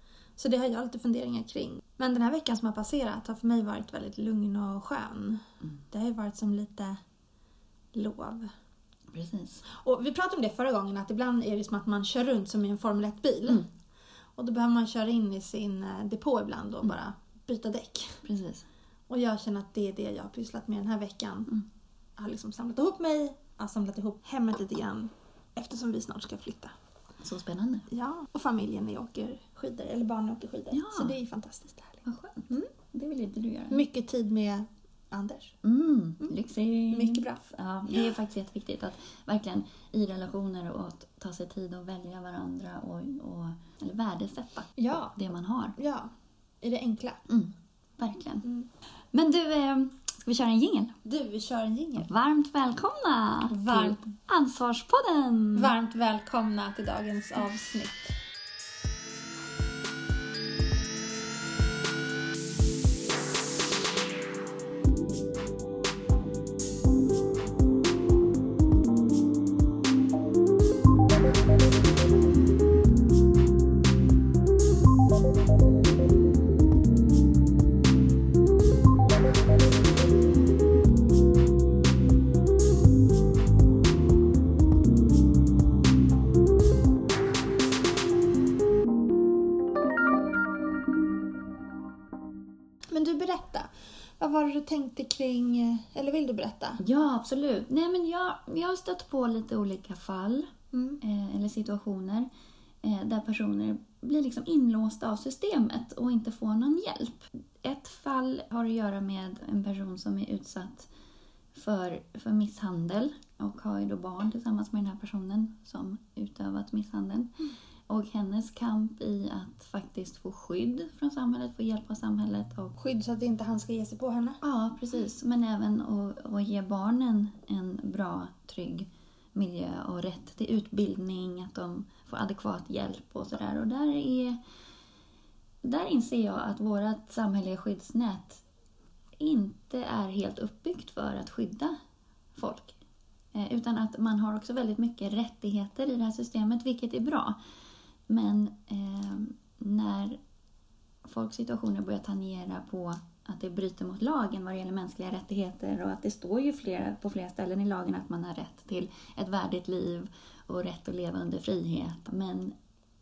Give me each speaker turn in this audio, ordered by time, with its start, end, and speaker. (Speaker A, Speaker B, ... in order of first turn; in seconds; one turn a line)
Speaker A: 0.4-7.0
Speaker A: 7.9-8.5
Speaker B: 9.1-9.6
Speaker A: 9.7-13.7
Speaker A: 14.4-18.2
Speaker B: 18.2-18.7
Speaker A: 19.1-21.6
Speaker A: 22.2-26.7
Speaker B: 27.2-27.9
Speaker A: 27.9-32.7
Speaker B: 30.7-31.1
Speaker B: 32.0-33.8
Speaker A: 33.7-35.6
Speaker B: 35.6-45.8
Speaker A: 36.9-37.4
Speaker A: 44.8-45.2
Speaker A: 45.8-46.1
Speaker A: 46.6-47.2
Speaker B: 47.3-48.5
Speaker B: 49.1-51.0
Speaker A: 51.0-52.1
Speaker B: 52.0-55.7
Speaker A: 53.5-54.1
Speaker A: 55.5-58.2
Speaker A: 92.9-96.8
Speaker B: 96.8-102.3
Speaker A: 100.7-101.0
Speaker B: 102.8-110.9
Speaker B: 111.5-117.3
Speaker B: 117.9-122.8
Speaker A: 122.8-124.4
Speaker B: 124.4-134.4
Speaker B: 135.6-138.4
Speaker B: 139.2-141.8
Speaker B: 142.3-142.8
Speaker B: 143.3-147.4
Speaker B: 148.1-150.2
Speaker B: 151.0-162.6